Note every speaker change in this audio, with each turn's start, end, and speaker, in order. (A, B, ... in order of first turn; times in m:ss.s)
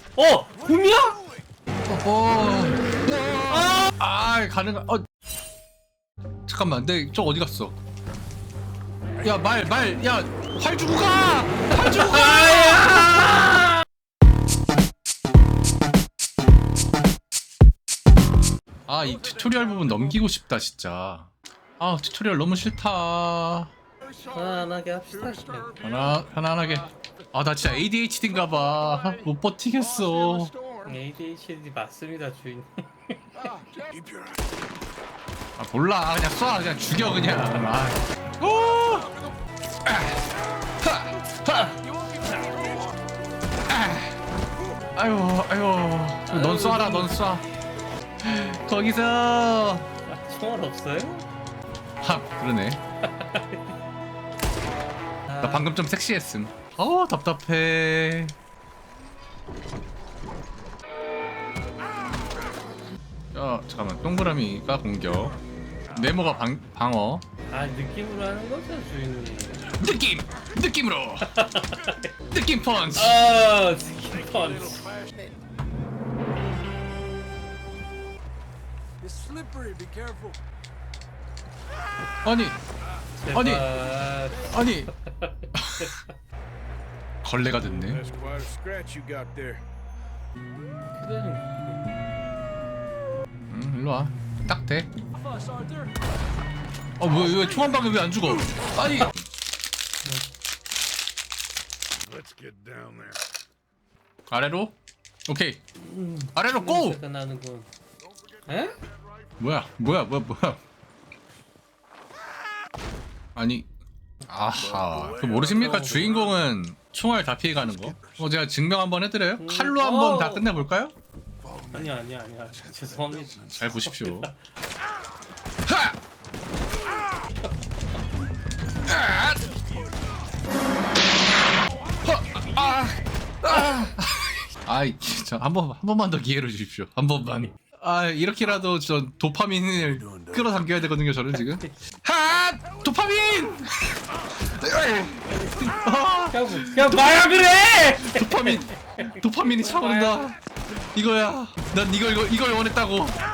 0:00.2-0:01.2 A
0:01.8-0:03.0 B
0:03.5-0:03.9 A
0:04.0-0:05.0 B
0:06.5-0:07.8 B
0:09.2-0:13.1 B
0:11.7-0:13.8 A
0:18.9-0:23.7 B
0:24.2-0:25.8 A
0:25.8-0:30.5 B
0:30.8-0:33.5 A
0:33.7-0:34.4 C
0:35.6-0:39.1 B
0:39.8-0:40.2 B
0:40.8-0:41.8 B
0:43.7-0:44.2 B
0:45.0-0:47.4 B
0:46.3-0:47.1 A
0:48.2-0:49.9 B
0:50.1-0:51.2 A
0:52.0-0:52.8 B
0:53.0-0:53.7 A
0:55.3-0:55.7 A
0:55.4-0:58.3 B
1:03.3-1:05.4 B
1:05.9-1:07.2 B
1:07.5-1:09.7 A
1:09.8-1:11.4 B
1:11.2-1:12.1 A
1:12.3-1:13.2 B
1:13.0-1:15.0 A
1:19.0-1:20.3 C
1:22.2-1:22.6 B
1:23.2-1:26.1 A
1:23.3-1:23.7 B
1:24.5-1:24.9 B
1:25.5-1:25.9 B
1:27.2-1:28.1 B
1:28.1-1:29.6 C
1:28.1-1:28.4 A
1:31.0-1:31.9 A
1:33.5-1:34.9 B
1:37.0-1:39.2 B
1:42.1-1:43.2 C
1:44.3-1:44.8 B
1:45.3-1:45.6 B
1:45.8-1:47.7 A
1:46.3-1:47.0 B
1:48.4-1:48.8 A
1:49.4-1:50.6 B
1:53.4-1:53.7 B
1:54.3-2:00.9 B
1:55.6-1:56.1 A
1:59.4-2:00.4 A
2:01.7-2:04.3 A
2:03.5-2:04.3 B
2:08.9-2:09.6 B
2:12.0-2:33.2 B
2:26.3-2:30.3 A